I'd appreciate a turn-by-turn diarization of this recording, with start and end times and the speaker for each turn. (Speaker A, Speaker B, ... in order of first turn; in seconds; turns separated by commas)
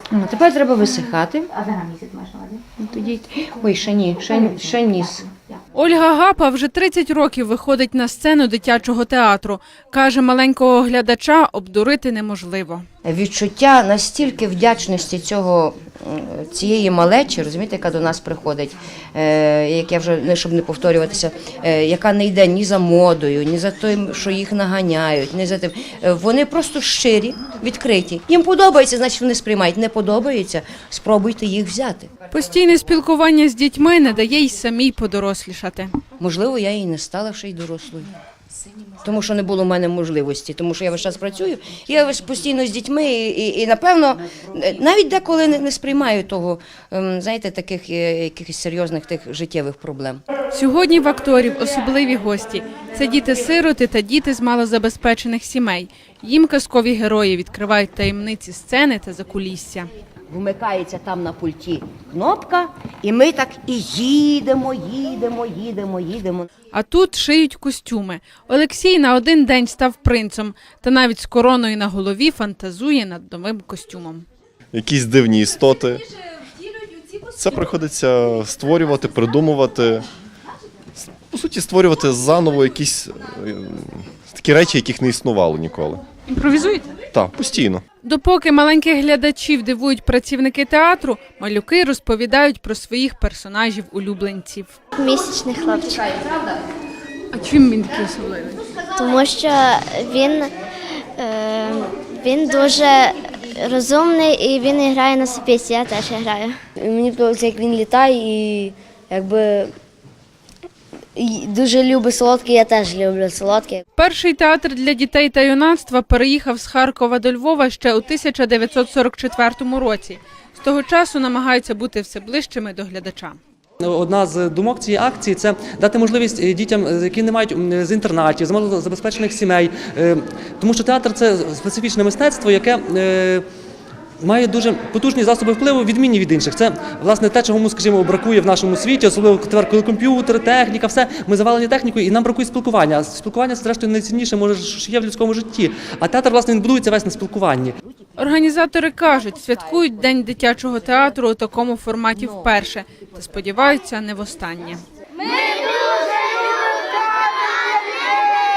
Speaker A: 0.1-5.3, Speaker B: 5.8-12.8, Speaker A: 13.1-32.1, Speaker B: 32.3-35.9, Speaker A: 36.2-38.1, Speaker A: 39.0-50.2, Speaker B: 50.5-59.9, Speaker A: 60.3-66.5, Speaker B: 66.7-74.2, Speaker C: 74.7-76.0, Speaker C: 77.3-80.1, Speaker C: 81.0-86.0, Speaker B: 86.3-86.9, Speaker C: 87.1-87.8, Speaker B: 88.0-94.8, Speaker D: 95.0-96.2, Speaker B: 97.3-98.6, Speaker D: 99.0-100.5, Speaker D: 101.2-106.6, Speaker E: 106.8-109.7, Speaker E: 111.2-113.8, Speaker B: 114.0-123.4, Speaker F: 123.8-133.4, Speaker F: 134.2-147.7, Speaker B: 148.2-154.8